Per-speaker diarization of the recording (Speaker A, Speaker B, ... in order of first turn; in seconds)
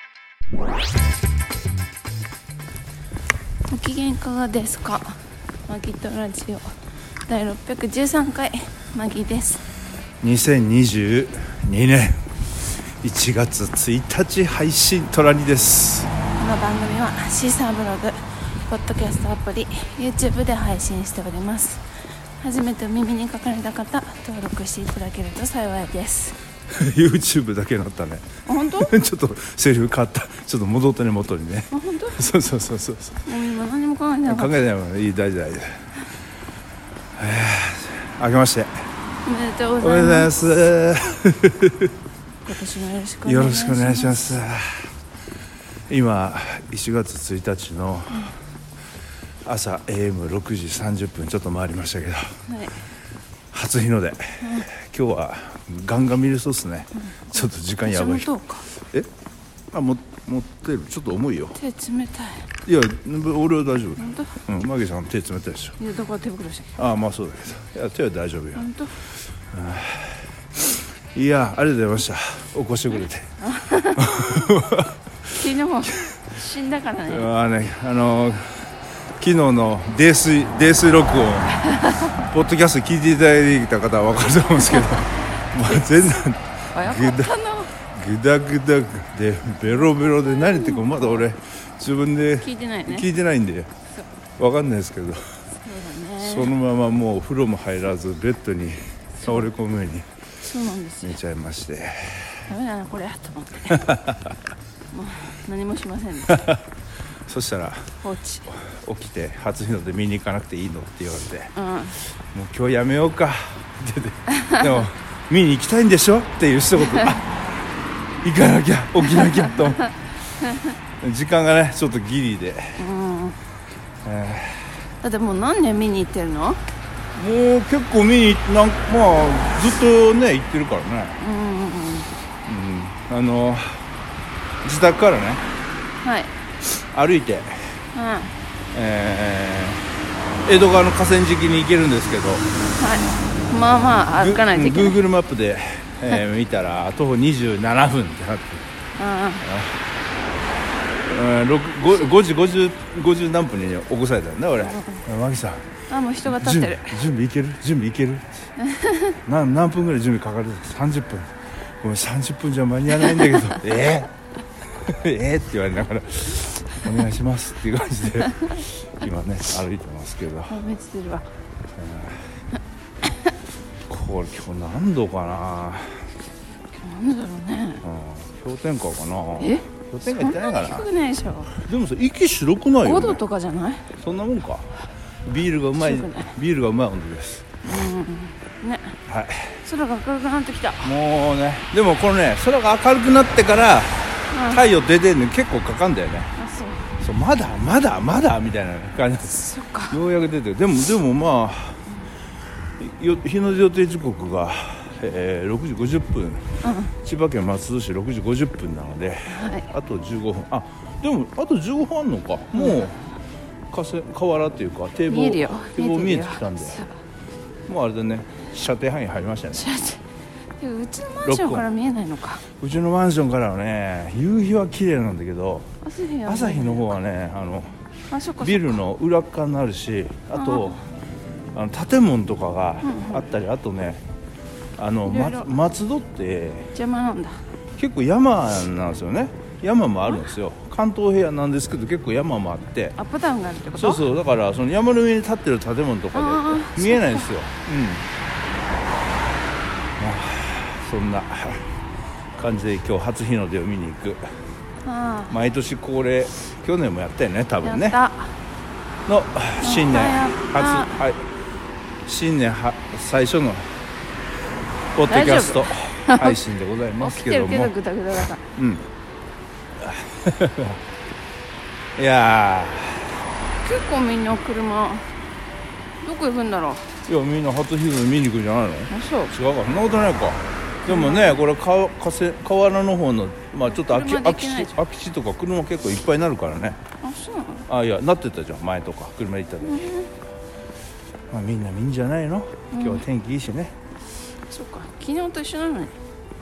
Speaker A: 3.7-6.7, 7.3-9.6, 16.4-21.8, 22.4-26.4, 28.4-29.0, 31.7-32.3, 33.2-34.6, 39.2-40.3, 42.5-44.3, 52.5-52.8, 54.4-54.7, 57.8-58.7, 61.5-62.5, 64.0-64.4, 65.8-66.8, 68.5-69.0, 73.4-74.5, 75.3-77.3, 81.6-82.1, 84.8-85.0, 85.6-87.7, 89.8-91.2, 92.4-93.1, 95.6-96.5, 99.2-99.5, 100.4-101.2, 102.5-104.0, 104.9-106.5, 108.0-108.5, 111.5-112.0, 114.3-114.7, 119.1-120.8, 122.8-123.4, 125.0-126.6, 131.2-132.1, 136.0-136.3, 137.9-138.3, 142.7-145.0, 148.9-149.4, 154.6-155.0, 155.9-157.0, 158.6-159.2, 170.5-171.2, 176.7-177.8, 179.4-181.5, 182.8-183.9, 185.8-186.3, 187.6-189.0, 189.6-190.9, 194.3-194.6, 196.3-196.9, 199.2-200.0, 206.6-206.9, 209.3-209.7, 212.5-212.9, 215.1-217.0, 219.5-220.0, 220.6-222.4, 225.8-226.9, 228.1-228.8, 230.3-230.8, 232.8-233.2, 235.1-235.5, 236.7-237.4, 243.0-244.0, 246.1-247.3, 254.8-255.3, 257.6-258.4, 259.6-261.0, 265.1-266.4, 267.0-268.4, 273.6-275.1, 276.0-276.9, 278.9-279.3, 280.9-281.4, 283.6-284.8, 287.0-287.6, 289.6-290.1, 292.7-293.0, 294.5-295.9
Speaker B: 10.2-16.1, 26.7-33.3, 34.2-35.8, 37.2-38.7, 39.8-41.9, 43.2-44.9, 45.9-48.3, 49.4-52.3, 53.5-59.1, 59.7-61.6, 62.6-65.8, 66.8-68.7, 69.4-73.3, 73.9-76.2, 77.1-93.7, 94.4-95.3, 96.2-100.1, 101.0-102.4, 103.7-104.3, 106.3-106.6, 107.3-107.9, 108.5-111.5, 112.2-117.4, 118.2-119.9, 121.0-122.8, 124.0-124.8, 127.1-131.2, 132.4-133.8, 134.6-135.4, 136.8-137.8, 138.7-139.9, 140.4-142.5, 144.1-148.6, 149.4-149.8, 151.0-155.7, 156.2-158.5, 159.2-164.1, 164.6-170.6, 171.7-172.3, 173.9-176.1, 177.8-180.9, 181.5-183.2, 183.9-184.7, 185.2-187.6, 189.1-189.6, 190.8-196.3, 197.0-199.4, 199.9-201.8, 202.8-213.0, 213.7-216.8, 217.7-219.7, 221.2-221.7, 222.5-225.7, 226.2-227.8, 228.4-230.8, 231.5-234.0, 234.8-236.7, 237.8-242.9, 243.7-248.1, 250.0-251.7, 252.3-254.2, 255.3-258.0, 259.1-261.2, 262.1-263.8, 264.9-267.7, 268.5-268.9, 269.8-270.8, 271.9-273.2, 277.1-286.8, 287.7-289.8, 291.3-293.8